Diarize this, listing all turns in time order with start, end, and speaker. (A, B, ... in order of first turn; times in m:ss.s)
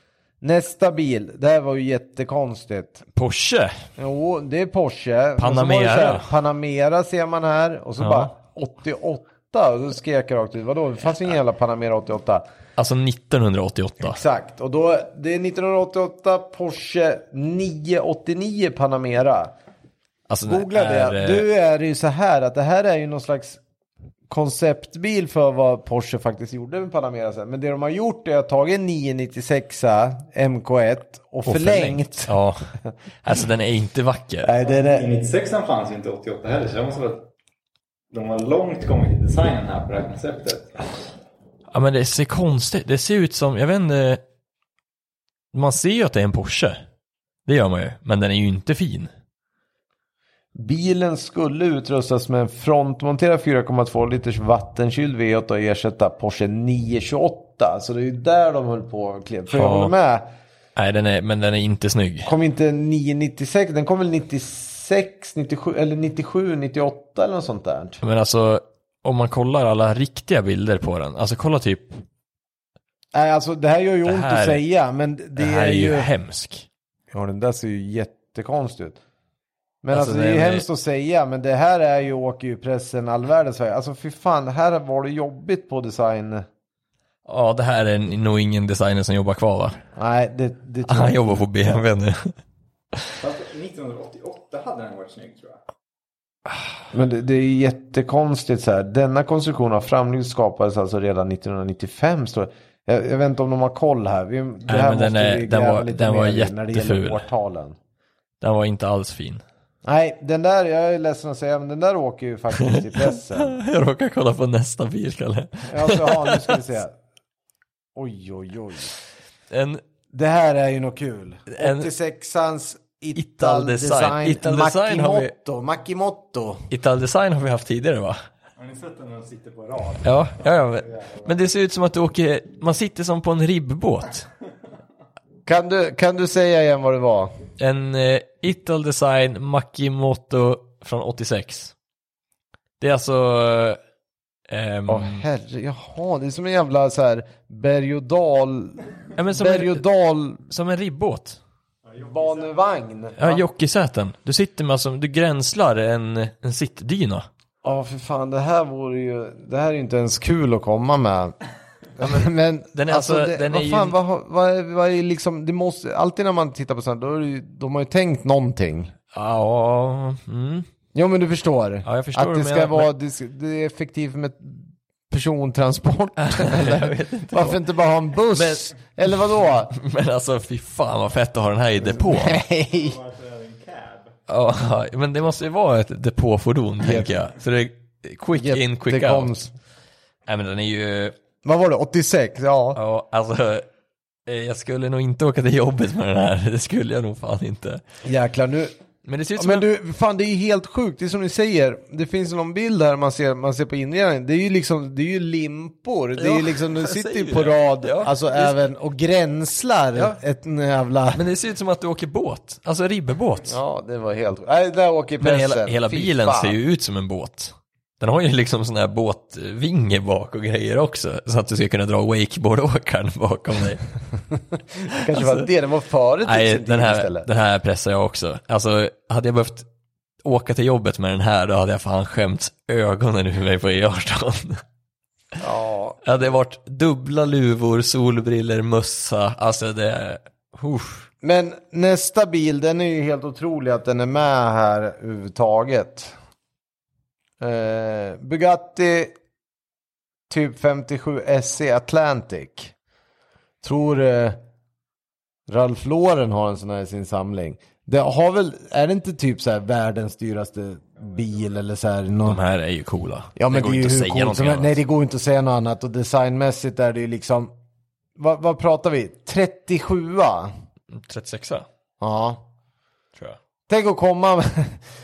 0:00.4-0:03.0 A
0:03.1-0:03.7 B
0:04.0-0:12.4 A
0:05.4-0:06.3 B
0:08.0-0:08.3 B
0:12.8-0:14.2 B
0:14.0-0:19.5 A
0:20.3-0:21.4 B
0:20.5-0:23.6 A
0:24.3-0:32.3 A
0:31.4-0:34.5 B
0:34.4-0:35.2 A
0:34.6-0:37.2 C
0:38.1-0:40.8 C
0:41.7-0:44.2 B
0:45.5-0:46.8 B
0:47.4-0:49.1 B
0:50.5-1:00.2 A
0:59.5-0:59.9 B
1:00.8-1:02.3 B
1:02.2-1:08.0 A
1:08.0-1:12.0 B
1:13.1-1:16.1 A
1:14.0-1:14.6 B
1:15.4-1:16.7 B
1:17.1-1:19.0 A
1:19.8-1:26.4 A
1:19.9-1:20.6 B
1:27.2-1:29.8 B
1:30.0-1:31.8 A
1:30.8-1:32.3 B
1:33.2-1:35.6 C
1:36.9-1:47.8 A
1:44.7-1:47.2 B
1:48.4-1:49.4 B
1:49.8-1:53.5 A
1:52.5-1:56.6 B
1:55.7-1:57.0 A
1:57.9-1:58.9 A
1:59.5-1:59.8 B
2:00.1-2:06.7 A
2:01.5-2:01.9 B
2:03.1-2:05.3 B
2:06.7-2:08.2 B
2:08.6-2:10.5 C
2:10.0-2:14.3 B
2:15.4-2:17.3 A
2:17.6-2:21.7 B
2:22.8-2:23.8 B
2:24.5-2:25.2 B
2:24.9-2:30.5 A
2:29.2-2:29.8 B
2:30.5-2:31.4 B
2:31.8-2:32.5 C
2:32.0-2:33.4 A
2:33.2-2:37.2 B
2:37.6-2:41.3 A
2:42.0-2:48.9 A
2:42.0-2:44.0 B
2:49.1-2:50.6 B
2:50.9-2:59.7 A
2:51.8-2:52.9 B
2:56.2-2:57.6 B
2:58.3-3:02.4 B
3:01.8-3:03.0 A
3:02.7-3:04.1 C
3:04.3-3:09.3 B
3:06.8-3:07.2 A
3:08.4-3:09.5 A
3:10.2-3:11.1 B
3:11.4-3:12.8 A
3:12.7-3:13.7 B
3:14.3-3:17.8 B
3:18.0-3:18.7 A
3:19.0-3:19.7 B
3:19.4-3:31.3 A
3:26.2-3:28.6 B
3:31.1-3:33.6 B
3:33.4-3:36.6 A
3:35.2-3:43.8 B
3:44.9-3:47.3 A
3:44.9-3:45.4 B
3:46.2-3:49.7 B
3:50.2-3:54.6 B
3:55.4-3:56.0 A
3:56.0-4:01.1 B
4:01.2-4:06.1 A
4:07.4-4:09.1 A
4:10.3-4:12.7 A
4:13.6-4:14.4 A
4:15.5-4:22.4 A
4:22.2-4:24.8 B
4:23.4-4:27.5 A
4:28.2-4:30.5 A
4:30.9-4:31.7 B
4:32.0-4:32.4 A
4:33.7-4:34.8 A